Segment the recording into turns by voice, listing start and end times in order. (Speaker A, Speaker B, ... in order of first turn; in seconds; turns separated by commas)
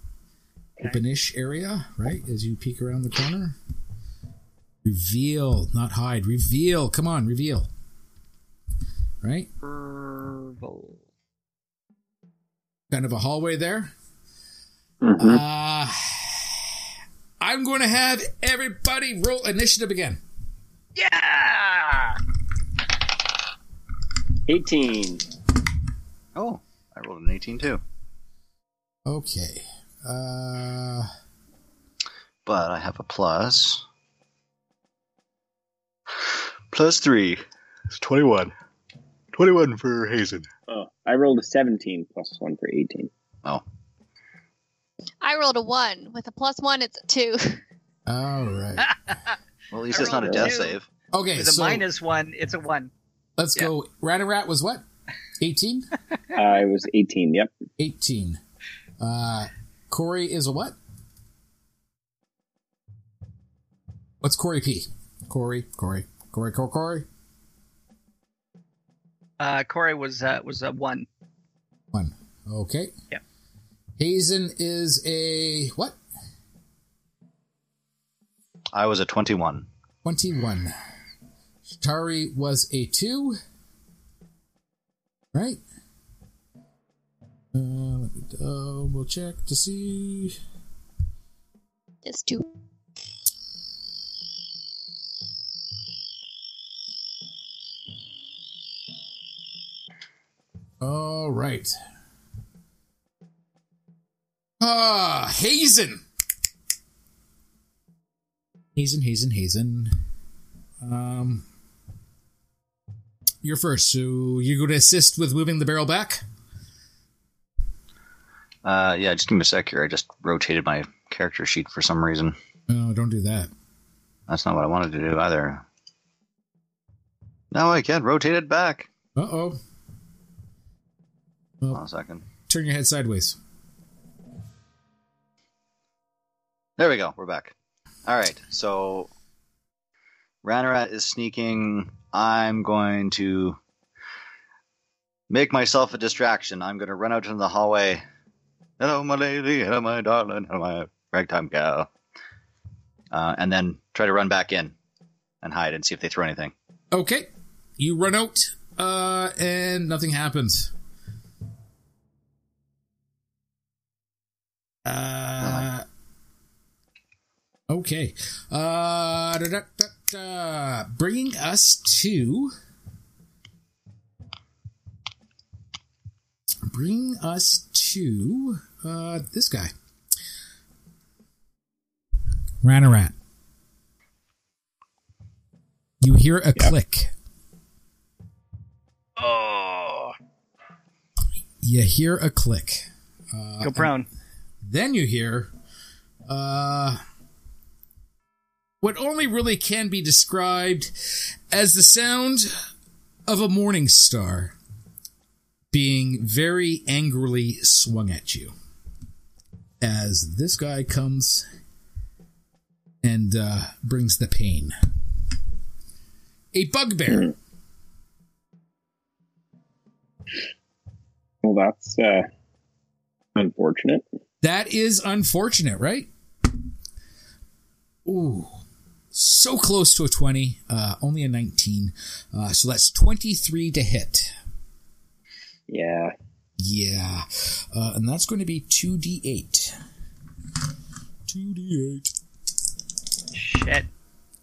Speaker A: 0.8-3.6, Speaker A: 4.8-7.7, Speaker A: 9.2-9.5, Speaker B: 9.6-11.0, Speaker A: 12.9-13.9, Speaker C: 15.0-15.4, Speaker A: 15.2-16.8, Speaker A: 17.4-20.2, Speaker B: 20.9-22.2, Speaker C: 24.5-25.2, Speaker D: 26.3-27.8, Speaker A: 29.1-31.1, Speaker D: 32.5-33.8, Speaker D: 36.7-38.5, Speaker D: 39.3-40.5, Speaker C: 40.7-43.1, Speaker E: 45.2-47.6, Speaker A: 48.1-48.9, Speaker D: 49.7-50.9, Speaker B: 49.9-50.7, Speaker C: 50.2-50.5, Speaker A: 51.1-51.8, Speaker B: 51.4-52.9, Speaker A: 53.4-54.8, Speaker A: 55.4-55.9, Speaker C: 56.3-57.5, Speaker A: 57.8-58.4, Speaker A: 59.0-60.8, Speaker A: 64.2-67.0, Speaker B: 69.4-71.1, Speaker A: 71.9-72.9, Speaker A: 74.0-76.0, Speaker D: 78.7-79.7, Speaker A: 80.0-80.7, Speaker A: 81.7-83.4, Speaker A: 85.3-85.6, Speaker A: 87.5-90.4, Speaker E: 92.0-92.5, Speaker A: 100.8-101.7, Speaker A: 104.6-106.0, Speaker A: 108.7-109.9, Speaker A: 110.8-111.4, Speaker A: 113.4-116.2, Speaker D: 118.6-122.3, Speaker A: 122.7-123.5, Speaker D: 124.3-125.6, Speaker D: 127.5-128.9, Speaker A: 129.2-129.6, Speaker D: 131.7-132.2, Speaker A: 132.5-133.4, Speaker D: 136.8-137.5, Speaker D: 138.1-139.1, Speaker D: 140.4-143.6, Speaker D: 145.3-148.0, Speaker D: 148.8-151.9, Speaker D: 153.1-154.7, Speaker D: 155.4-156.5, Speaker A: 156.9-160.7, Speaker A: 164.8-165.8, Speaker D: 165.4-165.7, Speaker A: 167.7-172.5, Speaker A: 176.7-179.7, Speaker A: 182.6-183.1, Speaker A: 186.0-187.1, Speaker B: 189.2-190.1, Speaker A: 191.6-193.9, Speaker B: 193.6-194.1, Speaker A: 194.6-195.5, Speaker A: 196.3-197.0, Speaker A: 198.8-202.5, Speaker A: 203.3-204.5, Speaker A: 205.7-208.5, Speaker A: 209.8-211.4, Speaker A: 213.0-214.7, Speaker A: 216.5-217.3, Speaker C: 221.4-222.3, Speaker C: 223.3-224.0, Speaker A: 224.4-226.1, Speaker A: 228.0-228.6, Speaker A: 229.1-234.3, Speaker C: 235.7-236.1, Speaker A: 236.6-239.7, Speaker A: 241.3-242.1, Speaker B: 243.3-243.9